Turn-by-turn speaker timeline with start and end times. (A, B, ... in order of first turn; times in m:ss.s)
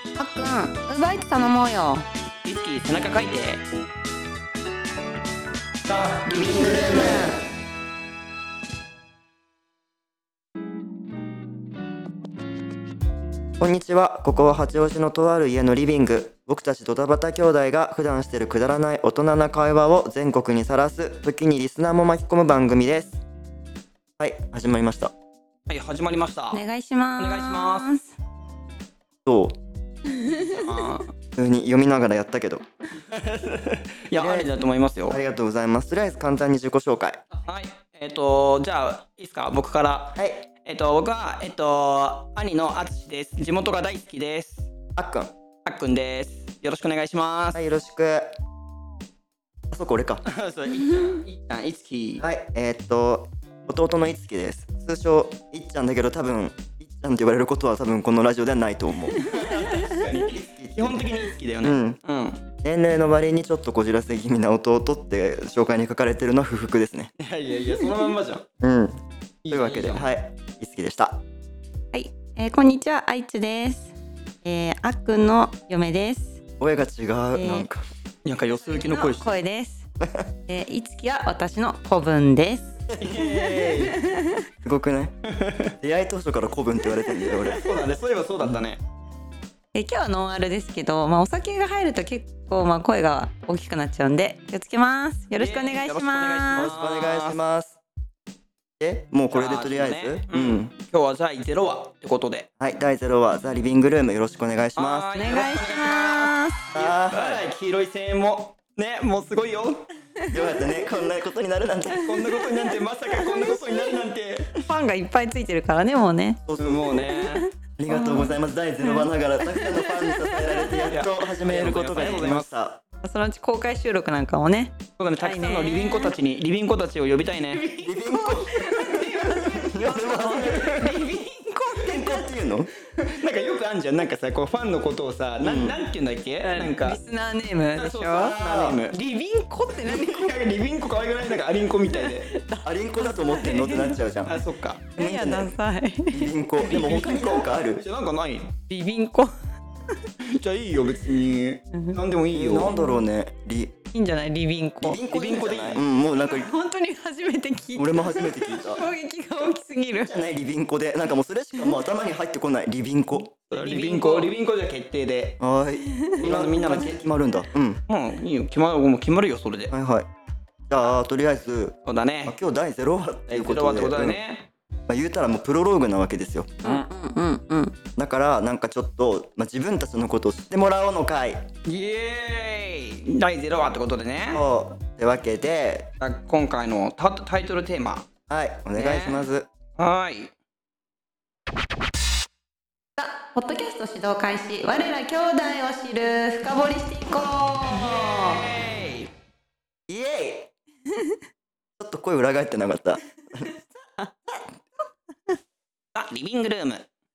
0:00.2-0:02.0 A
0:02.4-0:03.6 B
0:05.9-0:07.2 B
0:06.3-0:07.3 C
0:06.6-0:07.4 A
0:13.6-0:23.2 C
0:24.2-0:25.1 C
0:25.7-0:26.6 B
0:26.5-0:28.1 A
0:27.2-0:27.9 B
0:29.2-0:29.6 C
0:30.1-0:30.8 A
0:30.5-0:31.1 B
0:31.4-0:32.6 C
0:33.1-0:35.2 B
0:34.1-0:37.2 C
0:37.4-0:44.7 B
0:40.2-0:40.4 C
0:45.0-0:45.3 C
0:45.6-0:47.6 B
0:47.5-0:48.4 C
0:49.7-0:50.2 C
0:50.2-0:52.2 B
0:52.2-0:59.2 C
0:59.1-1:02.4 B
1:00.3-1:02.0 C
1:02.6-1:07.1 C
1:07.2-1:08.4 B
1:08.6-1:11.2 C
1:09.4-1:10.1 B
1:11.9-1:16.4 A
1:16.6-1:17.8 C
1:17.3-1:17.6 A
1:18.2-1:19.3 B
1:18.5-1:19.8 A
1:20.0-1:20.3 C
1:20.5-1:24.4 A
1:23.0-1:24.1 B
1:24.6-1:25.1 C
1:25.3-1:25.7 B
1:25.8-1:27.6 C
1:27.5-1:28.8 B
1:29.7-1:36.7 A
1:35.3-1:37.4 B
1:36.5-1:37.8 C
1:38.8-1:40.7 C
1:39.3-1:42.5 B
1:42.6-1:45.2 C
1:44.8-1:49.8 B
1:45.1-1:46.7 A
1:46.7-1:47.4 C
1:50.2-1:50.8 A
1:50.3-1:52.0 C
1:51.9-1:54.0 A
1:52.0-1:54.5 B
1:54.6-1:56.4 A
1:56.4-1:57.0 C
1:56.6-1:57.4 B
1:56.9-2:00.9 A
1:57.8-2:02.8 C
2:00.9-2:02.5 B
2:02.0-2:02.3 A
2:03.0-2:06.1 A
2:05.0-2:07.6 B
2:07.5-2:12.3 A
2:07.8-2:10.7 C
2:08.6-2:09.1 B
2:10.4-2:11.0 B
2:11.7-2:12.7 C
2:13.0-2:17.0 B
2:15.4-2:15.8 C
2:16.4-2:18.4 A
2:17.8-2:19.0 B
2:18.2-2:18.8 C
2:18.9-2:20.4 A
2:19.8-2:22.3 B
2:21.9-2:24.0 A
2:22.6-2:24.4 C
2:24.2-2:24.8 B
2:25.0-2:25.6 C
2:25.0-2:26.3 A
2:26.1-2:27.8 C
2:26.6-2:28.5 B
2:28.7-2:29.3 A
2:30.2-2:32.8 B
2:31.7-2:32.0 A
2:32.3-2:33.7 C
2:32.7-2:33.0 A
2:33.9-2:35.0 A
2:34.8-2:36.5 C
2:35.1-2:35.8 B
2:36.2-2:40.1 A
2:37.8-2:38.8 C
2:40.0-2:43.3 C
2:43.4-2:44.3 A
2:43.5-2:45.4 B
2:45.4-2:47.8 C
2:45.8-2:46.2 A
2:46.2-2:47.1 B
2:47.9-2:49.7 B
2:49.7-2:50.1 C
2:50.7-2:51.7 C
2:51.8-2:52.4 B
2:52.2-2:54.2 C
2:53.3-2:54.5 B
2:54.9-2:56.6 C
2:56.6-2:57.8 A
2:58.0-3:01.4 C
3:01.6-3:04.4 B
3:04.3-3:05.9 C
3:06.0-3:08.0 B
3:08.3-3:09.5 C
3:08.7-3:10.3 B
3:13.0-3:18.4 A
3:17.7-3:19.1 B
3:19.9-3:20.5 C
3:21.8-3:23.6 C
3:24.0-3:24.4 A
3:25.9-3:26.9 B